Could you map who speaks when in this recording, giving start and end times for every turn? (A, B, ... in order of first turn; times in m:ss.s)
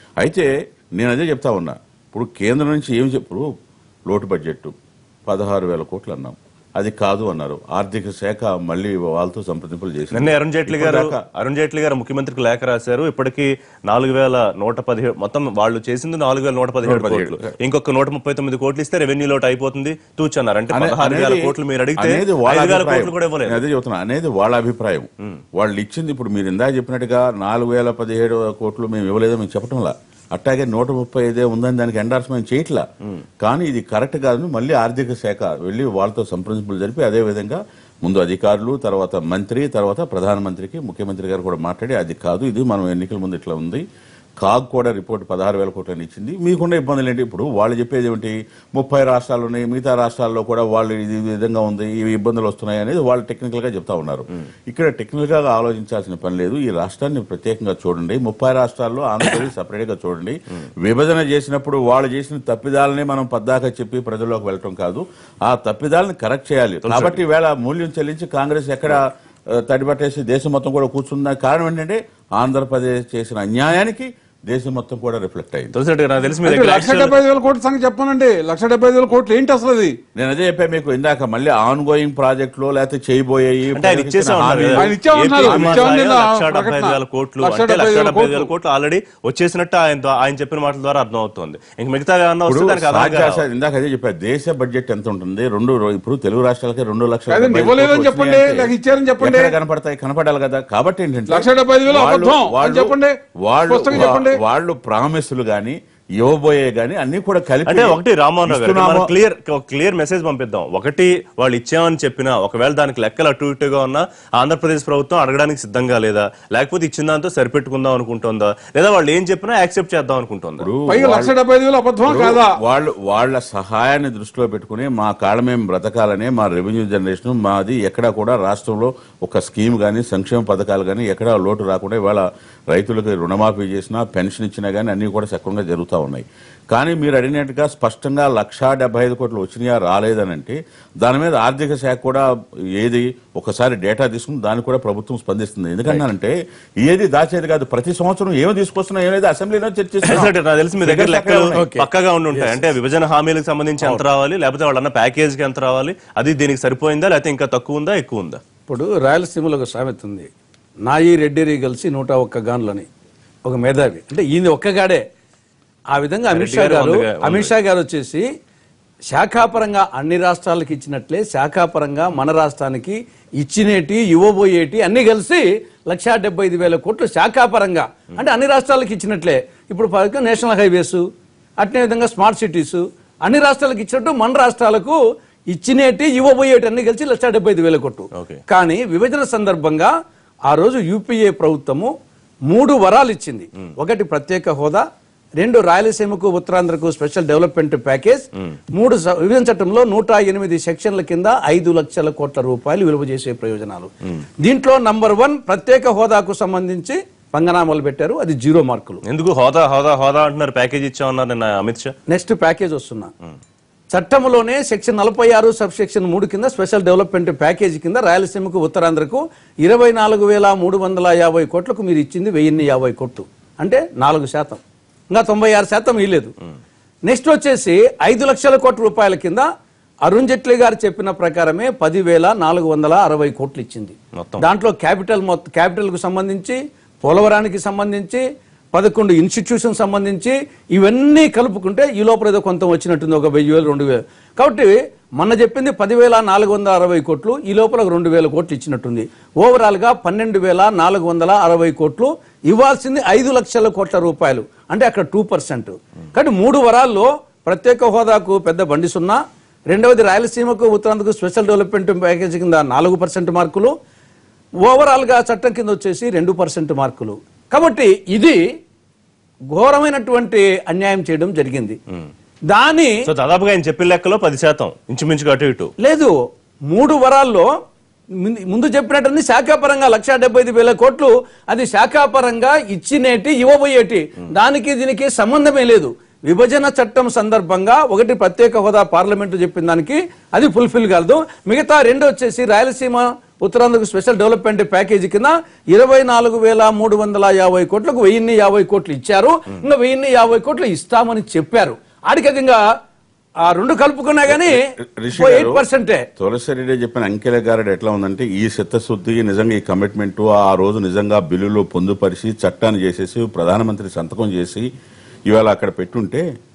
0:00.2-0:03.5 A
0:04.1-0:04.7 A
0:05.3-0:11.2 A
0:10.1-0:23.6 B
0:16.8-0:17.5 A
0:20.7-0:32.9 A
0:33.4-0:43.8 A
0:44.4-1:15.7 A
1:06.8-1:07.2 B
1:15.7-1:17.2 B
1:16.4-1:20.0 C
1:20.1-1:24.9 A
1:23.7-1:33.4 B
1:24.8-1:28.5 C
1:25.4-1:26.0 A
1:32.4-1:49.1 A
1:37.3-1:39.5 C
1:41.3-1:44.4 C
1:47.7-2:00.7 B
2:00.6-2:01.3 A
2:00.9-2:02.6 C
2:02.0-2:31.6 A
2:30.0-2:38.4 B
2:31.6-2:32.6 D
2:38.7-2:40.3 D
2:40.8-2:42.9 D
2:43.4-2:45.0 D
2:45.9-2:48.2 D
2:46.3-2:47.5 B
2:49.1-3:01.0 D
3:01.6-3:05.0 D
3:05.5-3:09.9 D
3:08.1-3:08.4 B
3:10.5-3:11.9 D
3:12.5-3:14.8 D
3:15.4-3:29.0 D
3:29.0-3:31.9 B
3:32.1-3:33.1 D
3:33.9-3:44.6 D
3:45.1-3:46.3 D
3:47.0-3:49.5 D
3:50.0-4:23.8 D
3:54.1-3:54.4 B
4:24.6-4:28.4 D
4:29.5-4:31.8 D
4:32.5-4:33.0 D
4:33.0-4:35.7 B
4:35.8-4:37.5 D
4:38.2-5:02.6 D
5:03.4-5:06.1 D
5:04.2-5:05.6 A
5:06.2-5:14.7 A
5:15.3-5:16.2 A